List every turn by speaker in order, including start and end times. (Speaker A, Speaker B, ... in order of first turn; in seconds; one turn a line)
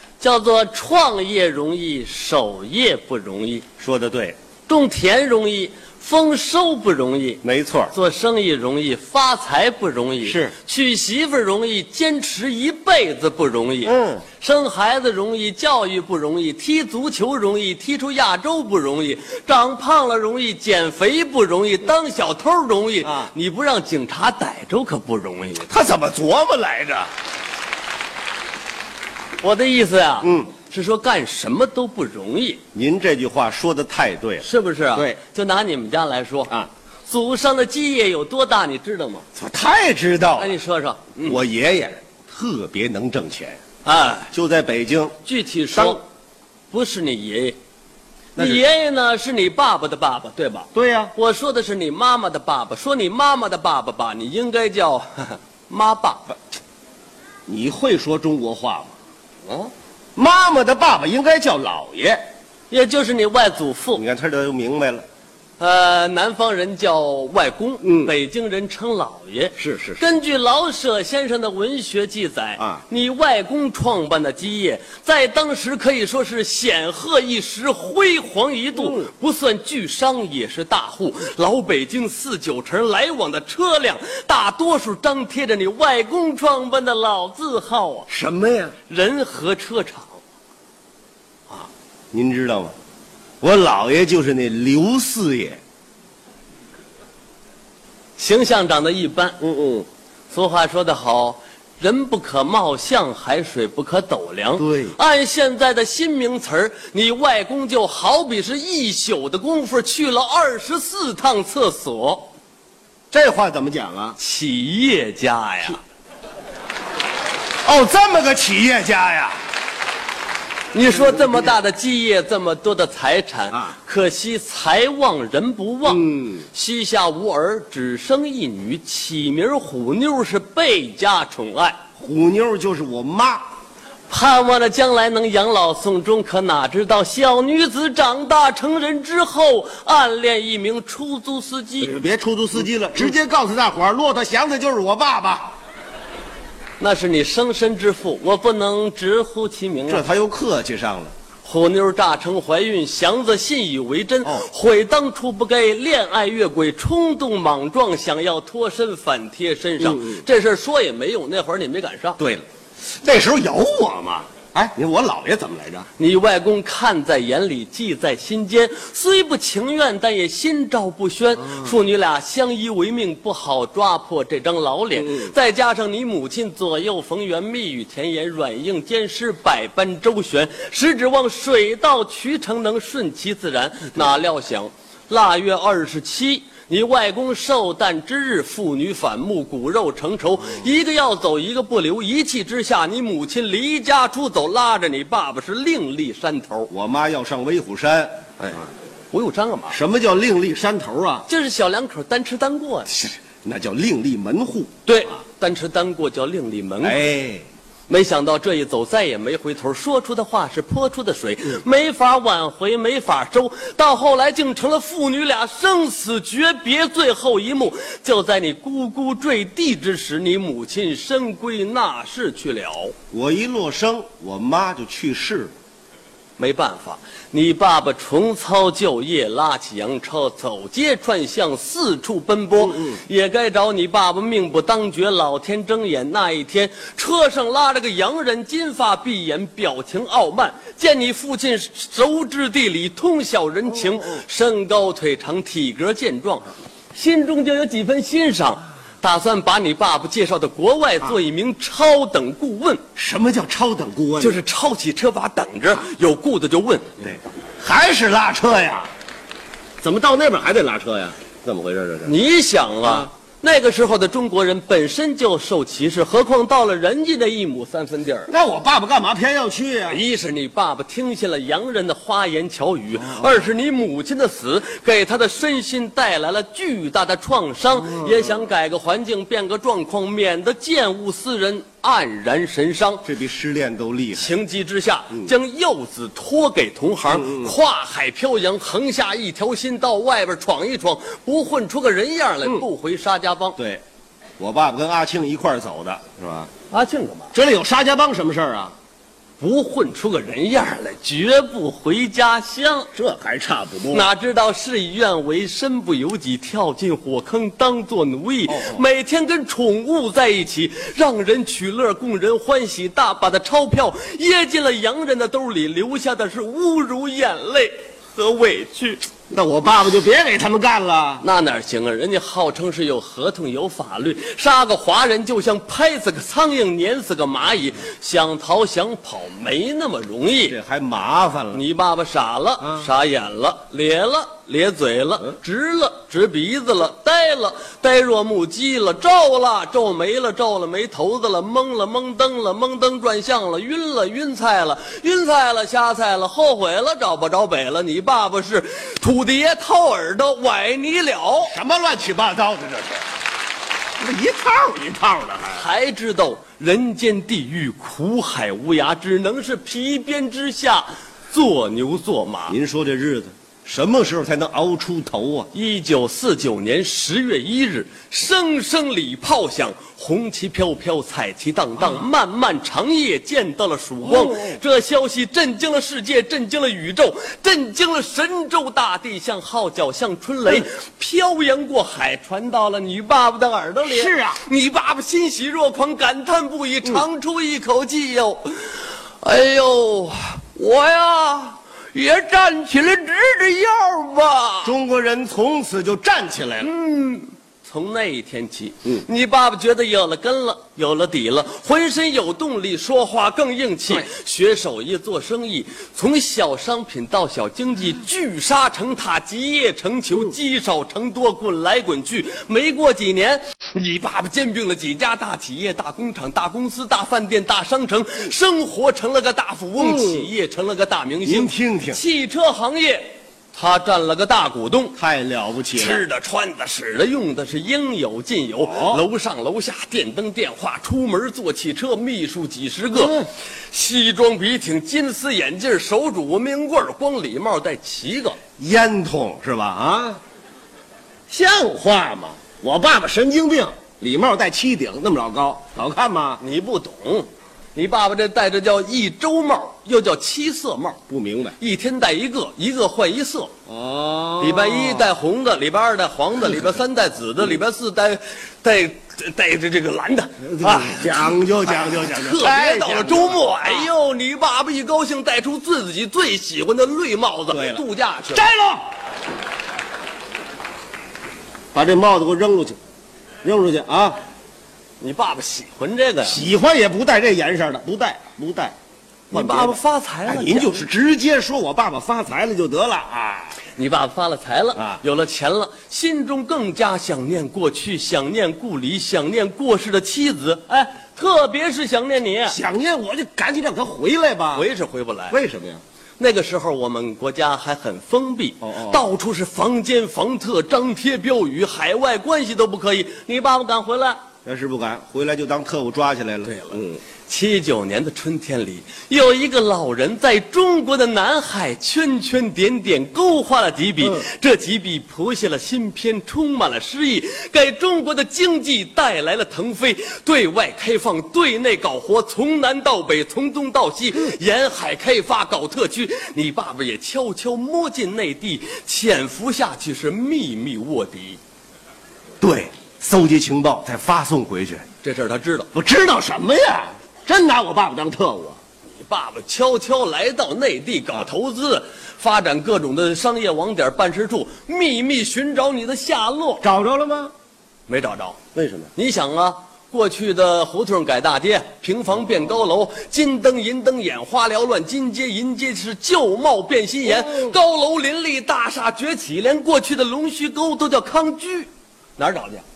Speaker A: 0.2-3.6
Speaker B: 3.8-4.3
Speaker A: 4.7-7.4
Speaker B: 7.4-7.9
Speaker A: 7.9-25.7
Speaker B: 10.2-10.5
Speaker B: 13.8-14.2
Speaker B: 23.0-23.3
Speaker B: 25.7-27.1
Speaker A: 29.4-32.6
Speaker B: 30.2-30.5
Speaker B: 32.7-35.2
Speaker A: 34.4-36.5
Speaker A: 37.1-39.2
Speaker B: 39.3-40.5
Speaker A: 40.4-41.4
Speaker B: 41.2-43.6
Speaker A: 43.8-44.3
Speaker B: 44.3-45.1
Speaker A: 45.2-46.0
Speaker B: 45.7-46.0
Speaker A: 46.7-47.6
Speaker A: 48.4-56.3
Speaker B: 48.4-48.6
Speaker B: 50.7-51.1
Speaker B: 57.5-58.9
Speaker B: 60.1-62.2
Speaker A: 62.7-64.0
Speaker B: 63.9-65.0
Speaker A: 65.6-88.1
Speaker B: 67.8-68.1
Speaker B: 69.6-70.0
Speaker B: 78.7-79.1
Speaker B: 88.1-88.7
Speaker A: 88.9-90.2
Speaker B: 91.5-92.7
Speaker B: 93.4-95.6
Speaker A: 98.2-99.4
Speaker B: 99.4-99.9
Speaker A: 100.3-112.3
Speaker B: 104.6-105.0
Speaker B: 113.1-114.2
Speaker A: 114.2-115.8
Speaker B: 117.6-119.4
Speaker A: 120.7-131.8
Speaker B: 125.8-126.5
Speaker B: 132.0-133.4
Speaker A: 134.1-141.9
Speaker B: 141.8-145.6
Speaker A: 146.8-150.0
Speaker B: 149.8-151.1
Speaker A: 151.4-162.2
Speaker B: 159.8-160.2
Speaker B: 162.2-165.9
Speaker A: 166.0-196.7
Speaker B: 174.9-175.3
Speaker B: 196.7-198.6
Speaker A: 199.1-199.8
Speaker B: 199.7-201.3
Speaker A: 201.3-202.9
Speaker B: 202.9-204.7
Speaker A: 204.8-207.0
Speaker B: 206.8-207.4
Speaker A: 207.9-222.9
Speaker B: 223.1-225.5
Speaker A: 226.4-252.8
Speaker B: 232.6-233.0
Speaker B: 243.8-244.2
Speaker B: 252.9-254.4
Speaker A: 254.2-257.1
Speaker B: 257.0-258.9
Speaker B: 259.8-262.1
Speaker A: 262.0-268.3
Speaker B: 268.3-270.0
Speaker A: 269.9-283.1
Speaker B: 283.0-284.3
Speaker A: 284.1-293.6
Speaker B: 287.1-287.5
Speaker B: 293.6-293.8
Speaker B: 294.4-296.5
Speaker A: 296.7-297.3
Speaker B: 297.3-298.7
Speaker A: 299.4-302.9
Speaker B: 302.9-304.1
Speaker A: 303.9-319.1
Speaker B: 308.4-308.8
Speaker B: 319.3-321.2
Speaker A: 321.2-330.6
Speaker B: 330.5-331.6
Speaker A: 331.5-351.5
Speaker B: 351.5-353.0
Speaker B: 354.0-355.6
Speaker A: 355.5-362.6
Speaker B: 362.5-365.5
Speaker A: 365.5-394.7
Speaker B: 374.0-374.6
Speaker B: 383.8-384.4
Speaker B: 394.6-396.7
Speaker A: 396.6-424.9
Speaker B: 419.8-420.3
Speaker B: 421.2-422.0
Speaker B: 425.0-426.1
Speaker A: 425.7-438.4
Speaker B: 428.6-429.0
Speaker B: 432.9-433.2
Speaker B: 438.6-440.2
Speaker B: 441.3-446.4
Speaker A: 446.4-451.0
Speaker B: 451.1-451.6
Speaker A: 451.6-453.5
Speaker B: 453.7-455.1
Speaker A: 454.4-468.5
Speaker B: 460.4-463.9
Speaker B: 467.5-468.9
Speaker B: 471.7-472.8
Speaker B: 473.4-474.2
Speaker A: 475.0-476.4
Speaker B: 476.2-478.8
Speaker A: 479.3-480.9
Speaker B: 479.3-483.6
Speaker A: 483.8-492.6
Speaker B: 484.8-485.0
Speaker B: 492.5-494.6
Speaker A: 494.5-495.4
Speaker B: 495.3-495.8
Speaker A: 496.2-504.2
Speaker B: 498.6-499.0
Speaker B: 504.4-507.0
Speaker A: 506.4-531.4
Speaker B: 532.4-534.8
Speaker A: 535.0-535.7
Speaker B: 535.7-538.6
Speaker A: 538.9-546.6
Speaker B: 546.6-547.3
Speaker A: 547.9-548.4
Speaker B: 548.5-548.9
Speaker A: 549.0-562.6
Speaker B: 557.0-557.6